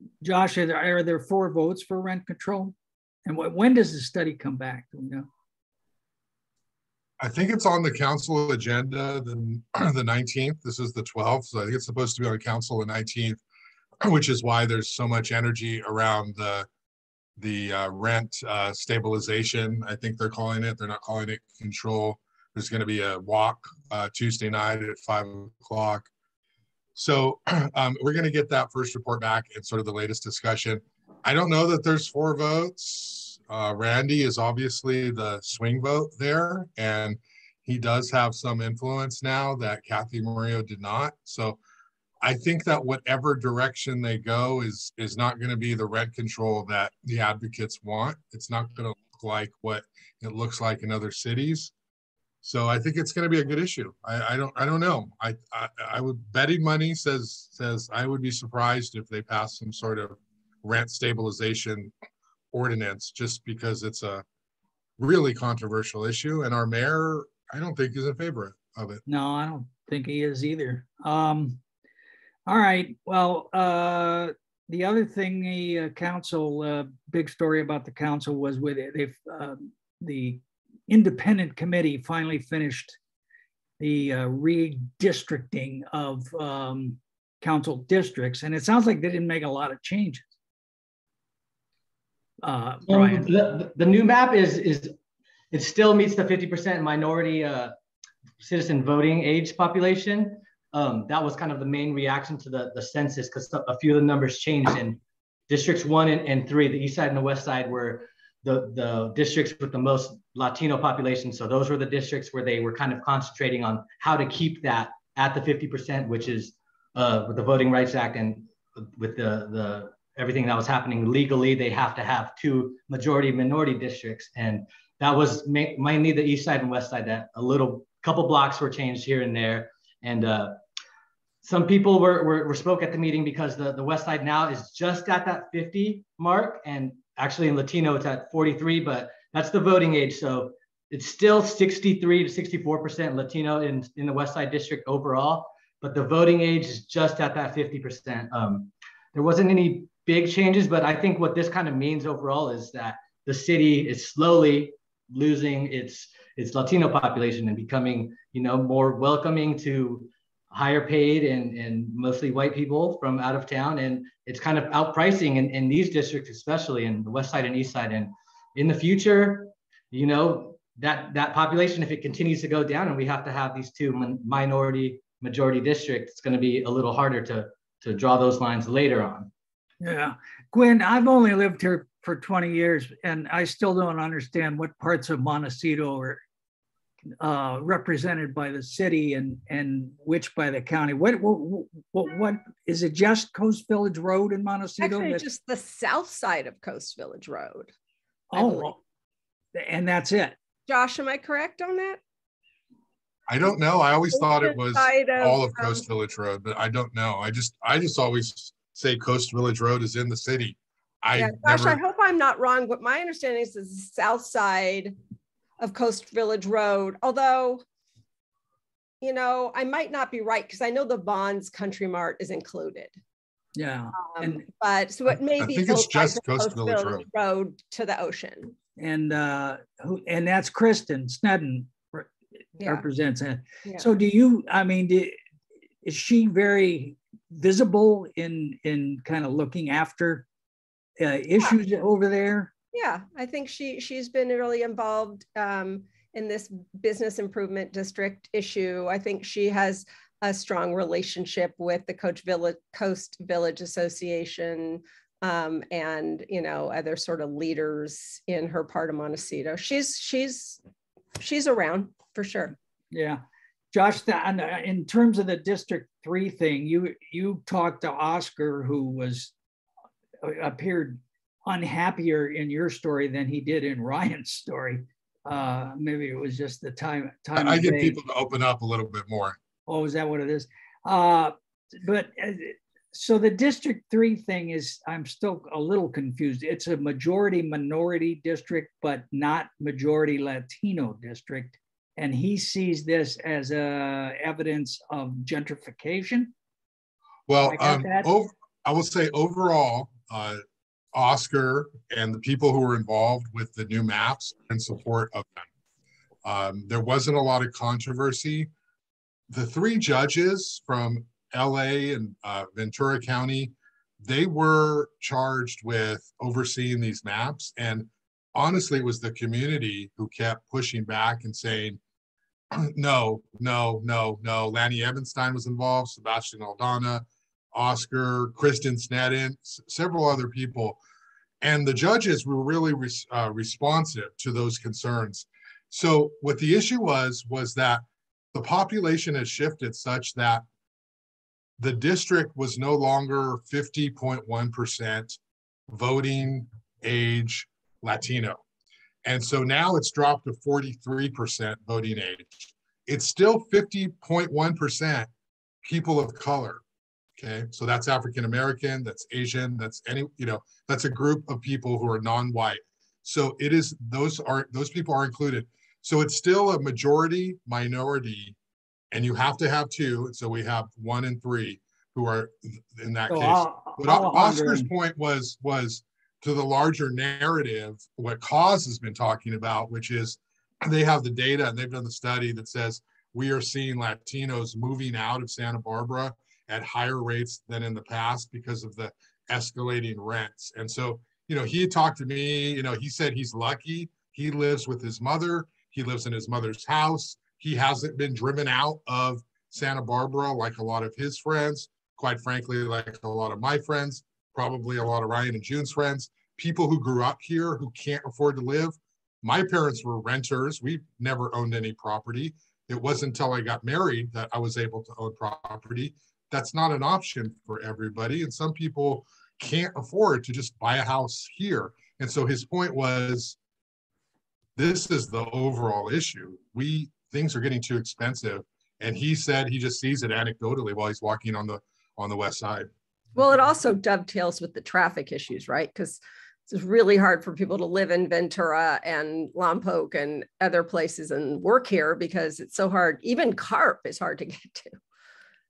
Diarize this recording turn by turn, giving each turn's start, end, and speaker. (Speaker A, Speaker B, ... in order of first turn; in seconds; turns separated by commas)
Speaker A: 0.2-2.7, Speaker A: 3.2-5.3, Speaker B: 7.2-13.4, Speaker B: 14.0-16.7, Speaker B: 17.4-26.1, Speaker B: 26.9-41.6, Speaker B: 42.2-51.7, Speaker B: 52.4-61.9, Speaker B: 62.5-64.2, Speaker B: 65.0-69.0, Speaker A: 69.1-71.6, Speaker A: 72.5-83.0, Speaker A: 83.8-90.3, Speaker A: 92.4-93.3, Speaker C: 92.9-94.9, Speaker C: 95.5-97.7, Speaker C: 98.4-130.6, Speaker C: 131.4-179.3, Speaker A: 179.8-186.2, Speaker A: 187.2-195.2, Speaker D: 194.8-197.7, Speaker A: 198.3-198.8, Speaker D: 198.3-198.7, Speaker A: 199.5-200.3, Speaker D: 200.7-202.0, Speaker B: 203.3-211.8, Speaker D: 204.1-205.8, Speaker D: 211.2-214.9, Speaker D: 215.6-217.6, Speaker D: 219.0-222.9, Speaker A: 223.6-224.4, Speaker D: 224.0-228.5, Speaker B: 225.4-227.0, Speaker A: 228.8-235.2, Speaker D: 232.6-232.8, Speaker A: 235.8-240.2, Speaker A: 241.0-242.5, Speaker D: 242.7-260.6, Speaker D: 261.2-262.5, Speaker A: 262.9-263.2, Speaker A: 263.7-269.3, Speaker A: 270.2-278.0, Speaker B: 277.3-279.4, Speaker A: 279.7-296.3, Speaker B: 297.3-300.4, Speaker A: 297.4-298.1, Speaker B: 300.9-305.5, Speaker B: 306.2-308.5, Speaker B: 309.3-321.8, Speaker B: 322.5-330.8, Speaker B: 331.4-340.4, Speaker B: 341.6-345.2, Speaker B: 345.7-348.4, Speaker B: 349.0-355.1, Speaker B: 355.6-356.6, Speaker B: 357.2-368.4, Speaker B: 368.9-423.4, Speaker A: 373.1-374.7, Speaker B: 424.6-432.7, Speaker D: 433.1-444.8